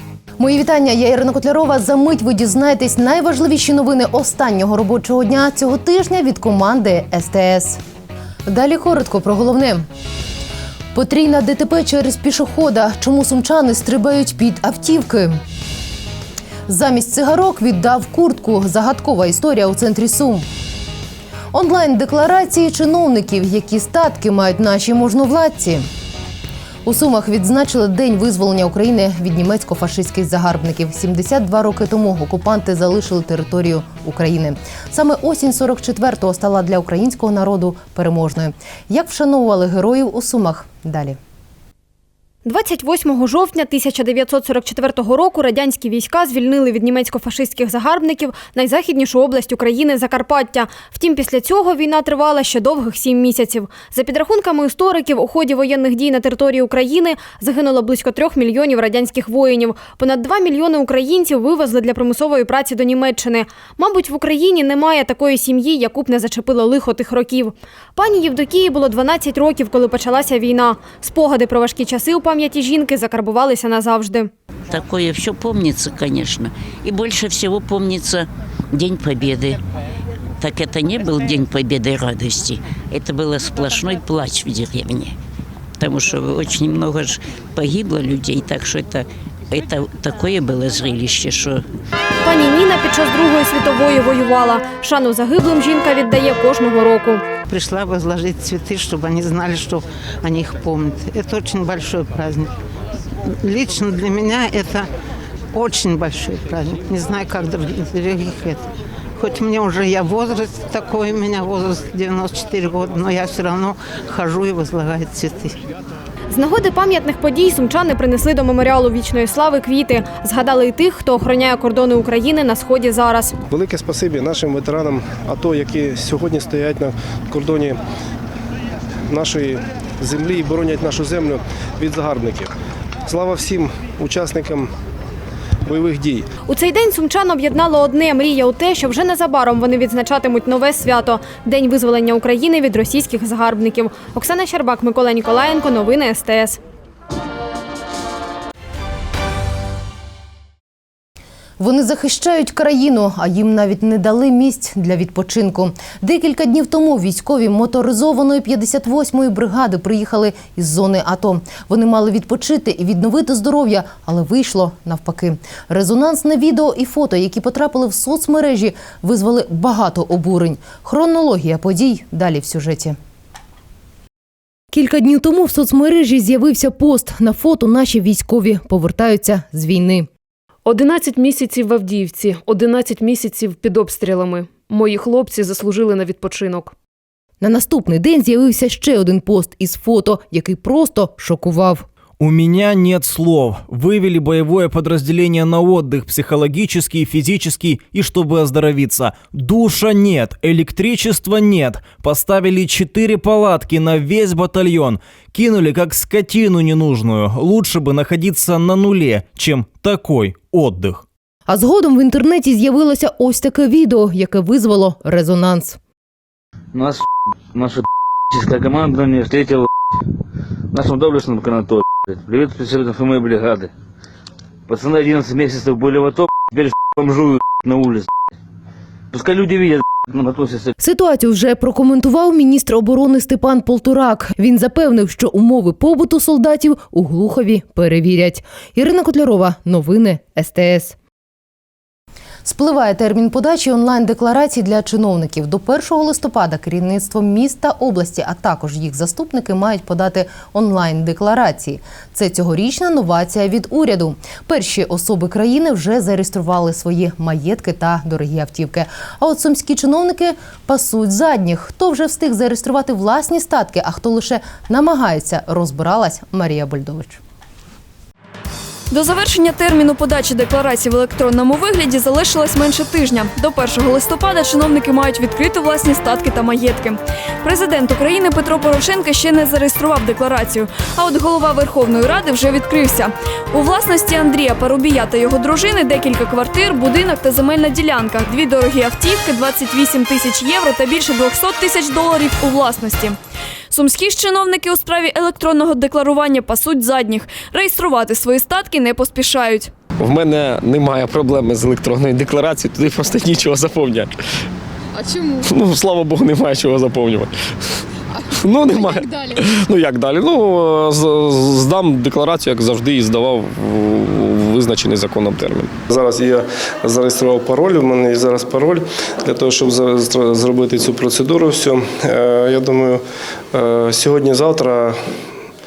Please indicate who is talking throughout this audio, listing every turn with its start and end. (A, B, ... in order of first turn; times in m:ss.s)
0:00.4-0:07.8 A
0:08.4-0:09.8 A
0:10.9-0:15.4 A
0:16.7-0:20.4 A
0:21.5-0:25.8 A
0:26.8-0:41.2 A
0:42.4-1:14.3 B
1:14.7-1:19.6 C
1:20.4-1:25.1 C
1:25.8-1:31.6 C
1:32.2-1:37.2 B
1:37.5-1:42.5 D
1:43.2-1:44.9 D
1:45.5-1:55.6 D
1:56.3-2:03.3 B
2:03.5-2:07.8 E
2:09.1-2:12.5 E
2:13.1-2:14.7 E
2:15.6-2:16.2 E
2:16.5-2:26.6 B
2:31.6-2:53.0 A
2:54.7-3:00.1 A
3:00.7-3:03.9 F
3:04.7-3:06.4 F
3:07.4-3:11.8 A
3:12.2-3:31.0 G
3:31.5-3:35.8 A
3:36.7-3:39.7 H
3:40.7-3:43.7 H
3:44.7-3:48.1 H
3:49.1-3:50.7 H
3:50.8-4:00.9 A
4:02.4-4:27.2 A
4:28.9-4:53.2 I
4:53.7-4:59.7 I
5:00.0-5:04.1 J
5:05.1-5:07.3 J
5:08.4-5:15.7 J
5:15.9-5:23.0 E
5:23.5-5:25.0 E